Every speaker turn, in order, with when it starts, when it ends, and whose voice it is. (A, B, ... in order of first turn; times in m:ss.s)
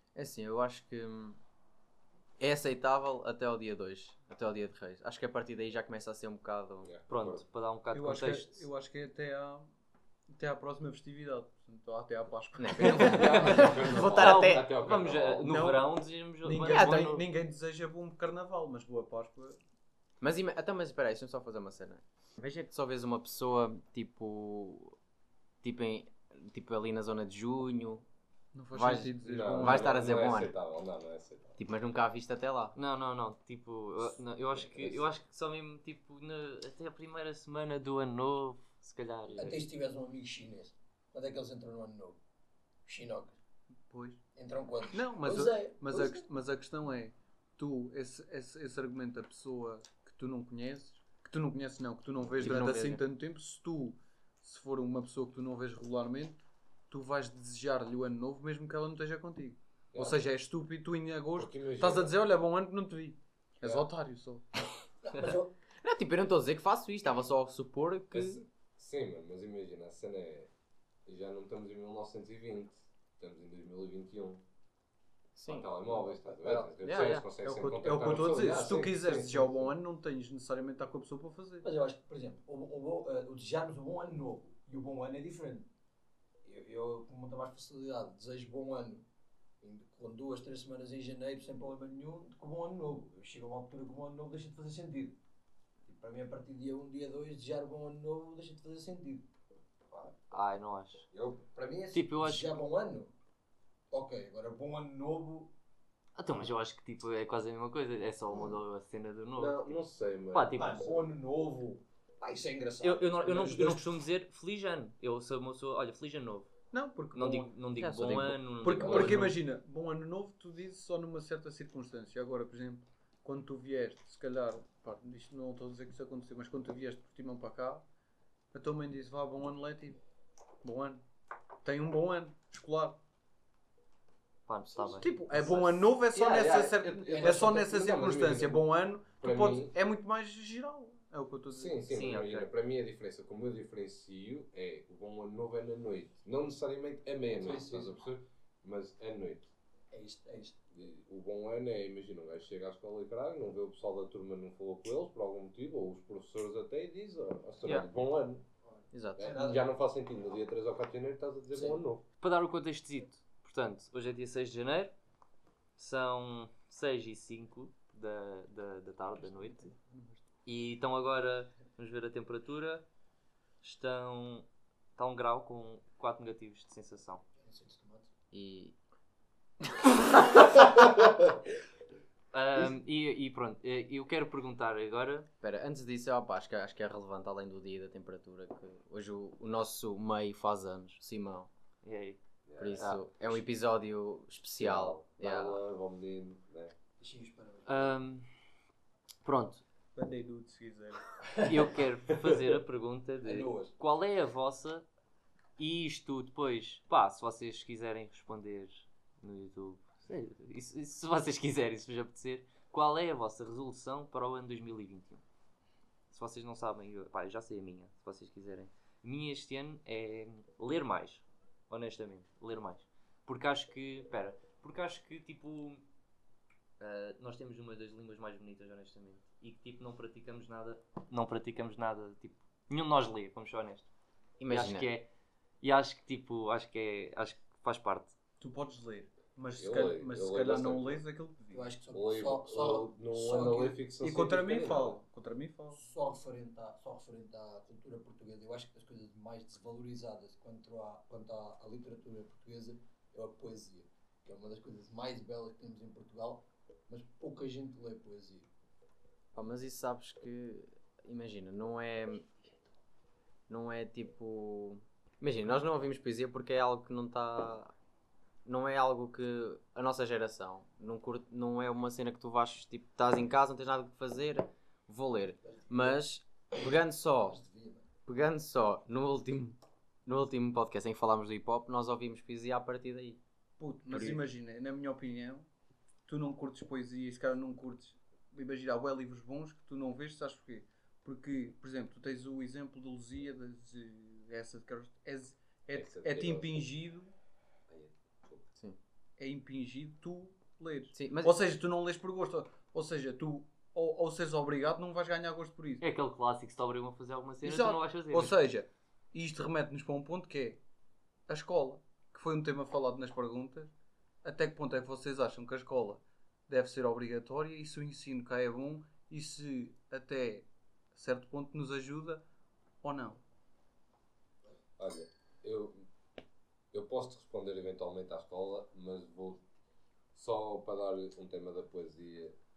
0:00.1-0:01.4 A
0:02.4-0:06.9 A
0:06.8-0:07.4 B
0:07.1-0:08.7 C
0:07.9-0:09.7 D
0:10.3-0:13.7 D
0:12.6-0:14.7 A
0:13.0-0:15.7 B
0:13.0-0:17.2 C
0:15.4-0:15.9 D
0:16.4-0:19.6 D
0:16.7-0:17.1 A
0:20.2-0:25.0 A
0:25.6-0:28.0 A
0:28.5-0:30.3 D
0:28.7-0:30.5 A
0:29.2-0:31.6 B
0:31.6-0:32.7 A
0:32.8-0:39.6 C
0:34.6-0:35.1 B
0:39.4-0:42.2 E
0:42.8-0:43.4 E
0:43.9-0:44.2 D
0:44.3-0:46.2 E
0:44.9-1:04.4 D
0:52.4-0:53.0 A
0:59.9-1:00.2 B
1:01.4-1:02.1 B
1:05.0-1:05.5 E
1:05.8-1:08.4 A
1:08.1-1:10.5 B
1:11.0-1:14.4 B
1:15.4-1:15.7 A
1:15.4-1:19.7 B
1:15.8-1:16.7 E
1:16.8-1:17.3 A
1:17.4-1:21.6 D
1:21.6-1:25.6 E
1:26.4-1:29.0 E
1:29.6-1:35.2 E
1:35.8-1:39.3 E
1:40.3-1:41.0 C
1:41.1-1:41.4 B
1:41.5-1:43.1 E
1:41.9-1:42.6 C
1:43.9-1:45.5 E
1:46.2-1:50.8 C
1:49.4-1:51.0 B
1:50.5-1:53.9 E
1:52.8-1:56.5 C
1:56.7-1:57.5 D
1:57.1-1:59.4 C
1:57.8-1:58.4 A
1:58.6-2:07.8 D
1:58.8-1:59.2 B
2:08.5-2:10.0 D
2:10.6-2:11.0 D
2:11.6-2:13.0 D
2:14.5-2:15.6 C
2:14.9-2:21.8 D
2:16.0-2:18.7 B
2:17.1-2:17.6 E
2:19.2-2:19.7 B
2:21.5-2:29.5 B
2:21.9-2:22.5 C
2:27.3-2:28.0 E
2:29.9-2:30.6 E
2:30.7-2:38.4 B
2:38.7-2:39.6 E
2:38.9-2:39.3 A
2:39.2-2:42.0 B
2:42.2-2:44.9 C
2:45.8-2:49.7 C
2:50.4-2:52.8 C
2:53.6-2:57.2 C
2:57.4-2:58.1 E
2:58.3-2:58.7 A
3:02.3-3:05.3 C
3:05.4-3:11.5 A
3:11.8-3:12.2 C
3:12.4-3:13.0 B
3:12.6-3:15.6 A
3:14.6-3:16.7 B
3:17.0-3:18.0 E
3:17.6-3:18.3 C
3:19.2-3:19.6 C
3:19.9-3:21.2 D
3:21.3-3:21.7 E
3:21.4-3:24.8 C
3:23.2-3:23.7 E
3:25.6-3:35.2 C
3:36.1-3:45.8 C
3:46.8-3:53.9 C
3:54.4-3:54.9 A
3:54.5-3:55.1 C
3:55.6-3:58.1 C
3:58.4-4:01.7 D
3:59.6-4:01.0 B
4:01.5-4:03.8 E
4:01.9-4:04.7 B
4:04.0-4:05.8 D
4:04.4-4:05.0 E
4:05.7-4:18.5 E
4:19.3-4:22.3 A
4:23.5-4:27.7 A
4:28.4-4:37.4 A
4:35.5-4:36.0 E
4:37.2-4:37.8 E
4:38.0-4:43.2 A
4:43.6-4:45.5 D
4:43.9-4:44.2 A
4:46.1-4:57.1 D
4:55.7-4:56.5 B
4:57.7-4:58.5 B
4:59.2-5:05.8 D
5:00.9-5:01.4 A
5:05.8-5:08.3 C
5:07.4-5:10.6 D
5:11.3-5:13.7 D
5:14.2-5:22.2 D
5:22.8-5:23.2 D
5:24.8-5:25.8 B
5:26.7-5:29.4 B
5:30.1-5:32.4 B